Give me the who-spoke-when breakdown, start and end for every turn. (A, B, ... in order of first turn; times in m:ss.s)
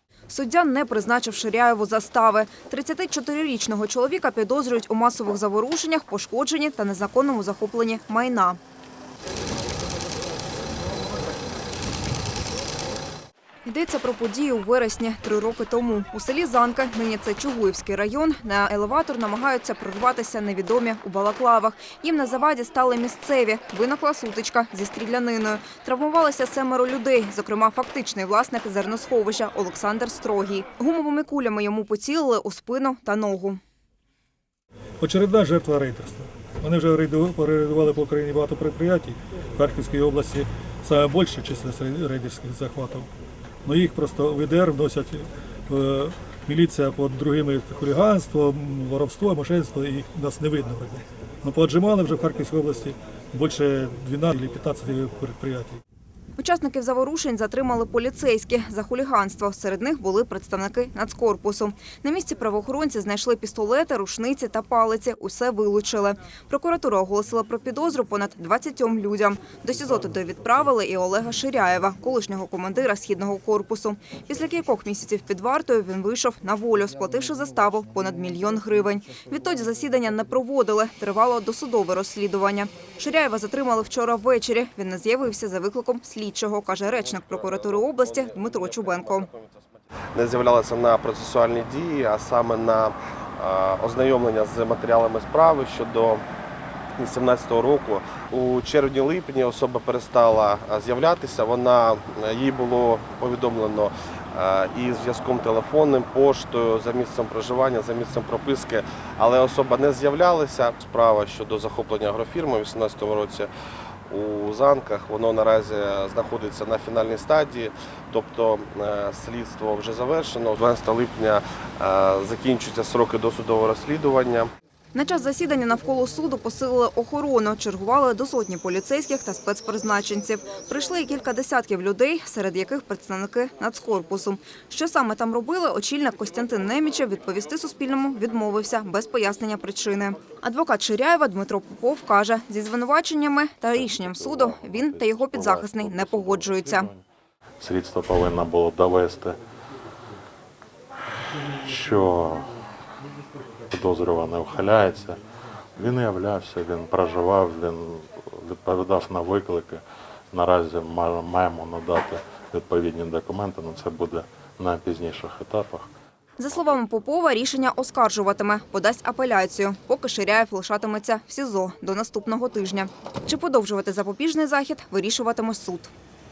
0:00.3-0:08.6 A
0:13.6-0:33.6 A
0:35.0-0:43.1 B
0:43.6-0:55.8 B
0:56.4-1:29.3 A
1:26.9-1:36.2 C
1:37.0-1:53.5 C
1:54.1-2:04.5 C
2:04.9-2:26.9 A
2:23.8-2:27.0 D
2:27.6-2:29.4 D
2:31.5-2:32.5 D
2:33.7-2:35.2 D
2:35.8-2:45.9 D
2:46.4-2:55.9 A